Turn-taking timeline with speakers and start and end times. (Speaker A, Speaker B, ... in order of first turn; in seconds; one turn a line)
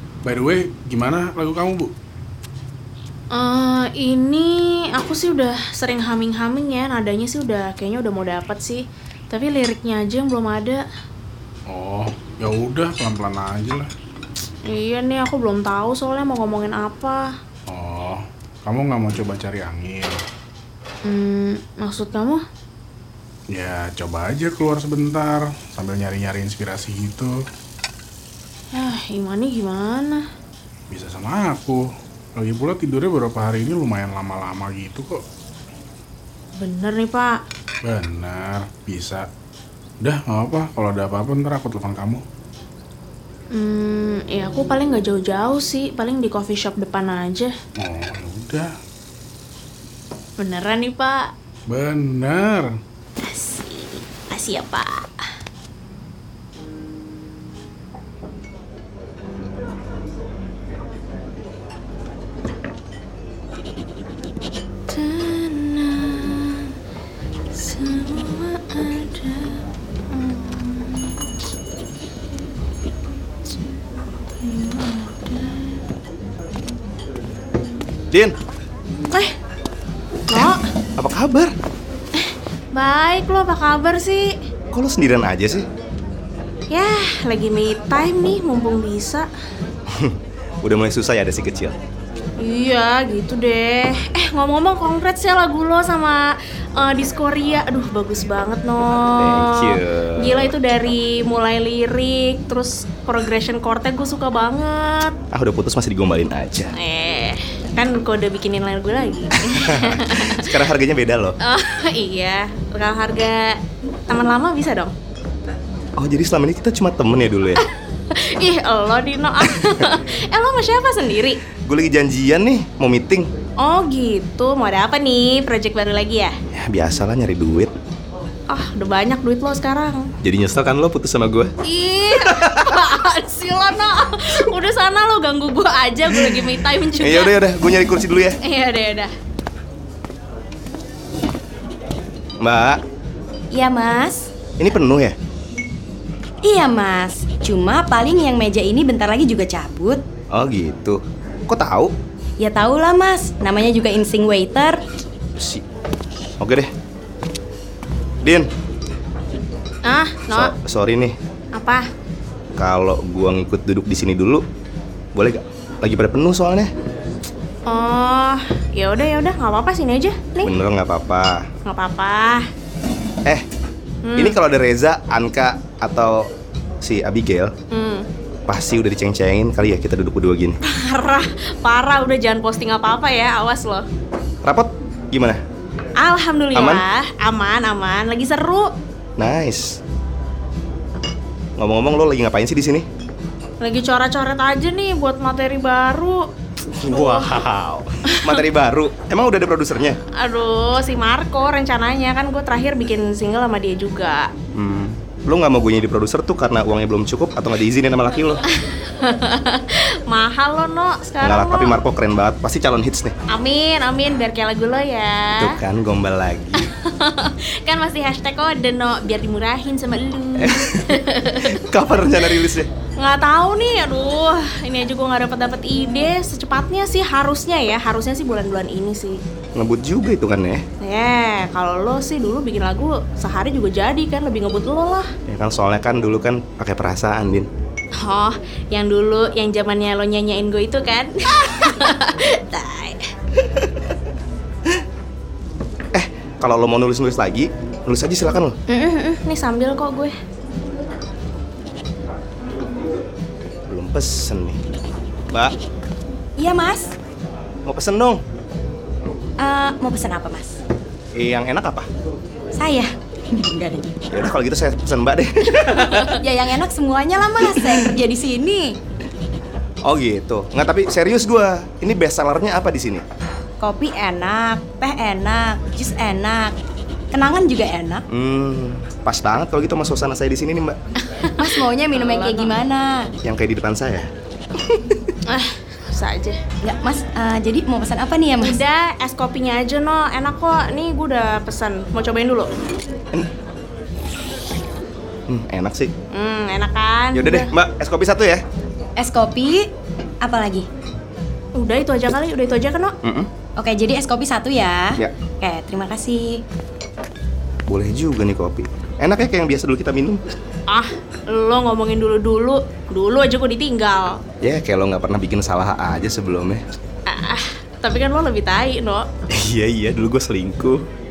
Speaker A: 0.2-1.9
Speaker B: 3.3-10.8
Speaker A: 11.7-13.9
Speaker B: 14.6-17.3
Speaker A: 17.7-20.1
Speaker B: 21.1-22.4
Speaker A: 23.5-27.3
Speaker B: 28.7-30.2
Speaker A: 30.9-31.8
Speaker A: 32.3-35.2
Speaker B: 36.6-37.4
Speaker A: 37.8-39.2
Speaker A: 40.0-42.2
Speaker B: 43.5-47.5
Speaker A: 47.8-48.7
Speaker B: 50.4-51.3
Speaker A: 51.7-52.7
Speaker B: 53.2-55.1
Speaker B: 64.9-66.7
Speaker B: 67.5-71.1
Speaker B: 74.4-75.8
Speaker B: 80.3-80.6
Speaker C: 80.3-81.5
Speaker B: 82.1-84.3
Speaker C: 84.7-85.7
Speaker B: 86.7-89.3
Speaker C: 89.9-91.8
Speaker B: 92.4-105.1
Speaker C: 99.2-100.5
Speaker C: 105.3-106.7
Speaker B: 106.7-110.5
Speaker C: 109.4-111.3
Speaker B: 111.4-114.9
Speaker C: 116.0-117.6
Speaker B: 117.6-121.4
Speaker C: 119.4-119.7
Speaker C: 121.6-123.3
Speaker B: 123.6-126.3
Speaker C: 126.5-127.7
Speaker B: 128.5-130.1
Speaker C: 130.2-131.5
Speaker B: 131.6-137.3
Speaker C: 132.2-132.8
Speaker C: 137.0-138.4
Speaker B: 138.4-139.1
Speaker C: 142.4-142.8
Speaker D: 143.5-144.3
Speaker C: 144.6-145.2
Speaker D: 146.4-150.0
Speaker C: 150.3-151.9
Speaker D: 152.4-154.8
Speaker C: 155.3-155.6
Speaker C: 156.4-156.7
Speaker C: 158.2-158.5
Speaker B: 159.8-160.5
Speaker C: 160.3-161.2
Speaker B: 161.5-161.8
Speaker C: 162.6-164.4
Speaker C: 165.1-166.7
Speaker B: 167.7-170.5
Speaker C: 170.4-171.5
Speaker B: 171.6-172.4
Speaker B: 174.0-174.4
Speaker C: 174.2-176.3
Speaker C: 176.8-177.5
Speaker B: 177.7-178.1
Speaker C: 178.5-180.6
Speaker B: 180.6-183.8
Speaker C: 184.4-185.4
Speaker B: 186.0-188.7
Speaker C: 186.5-186.8
Speaker C: 189.2-189.8
Speaker C: 191.6-192.8
Speaker B: 193.6-196.2
Speaker C: 196.7-200.0
Speaker B: 196.8-197.3
Speaker B: 198.1-198.4
Speaker B: 200.1-204.3
Speaker C: 204.5-208.4
Speaker B: 208.5-211.8
Speaker C: 211.2-213.1
Speaker B: 213.3-215.5
Speaker C: 215.3-216.7
Speaker B: 216.5-221.6
Speaker C: 220.4-222.7
Speaker B: 223.0-229.2
Speaker C: 229.6-230.6
Speaker B: 230.8-235.1
Speaker C: 235.3-237.5
Speaker B: 238.0-243.1
Speaker C: 243.5-243.8
Speaker C: 245.9-248.5
Speaker B: 248.7-250.1
Speaker C: 253.7-254.6
Speaker D: 256.4-256.9
Speaker C: 257.6-258.2
Speaker D: 259.4-260.6
Speaker C: 261.1-261.9
Speaker D: 262.5-264.1
Speaker C: 264.1-266.2
Speaker D: 265.7-268.7
Speaker C: 267.6-267.9
Speaker C: 269.8-273.0
Speaker D: 273.6-276.5
Speaker D: 277.1-278.0
Speaker C: 278.1-280.8
Speaker B: 281.0-282.6
Speaker D: 281.4-283.1
Speaker C: 283.2-284.1
Speaker C: 284.6-285.1
Speaker B: 285.3-286.4
Speaker D: 286.6-288.6
Speaker B: 288.4-292.5
Speaker C: 295.3-295.9
Speaker B: 296.1-297.5
Speaker C: 297.1-298.4
Speaker D: 298.9-299.7
Speaker D: 300.2-300.7
Speaker B: 301.5-302.9
Speaker C: 303.0-303.3
Speaker D: 303.6-306.4
Speaker C: 307.7-310.2
Speaker B: 310.7-314.2
Speaker C: 314.4-316.6
Speaker B: 317.1-319.1
Speaker C: 319.3-320.8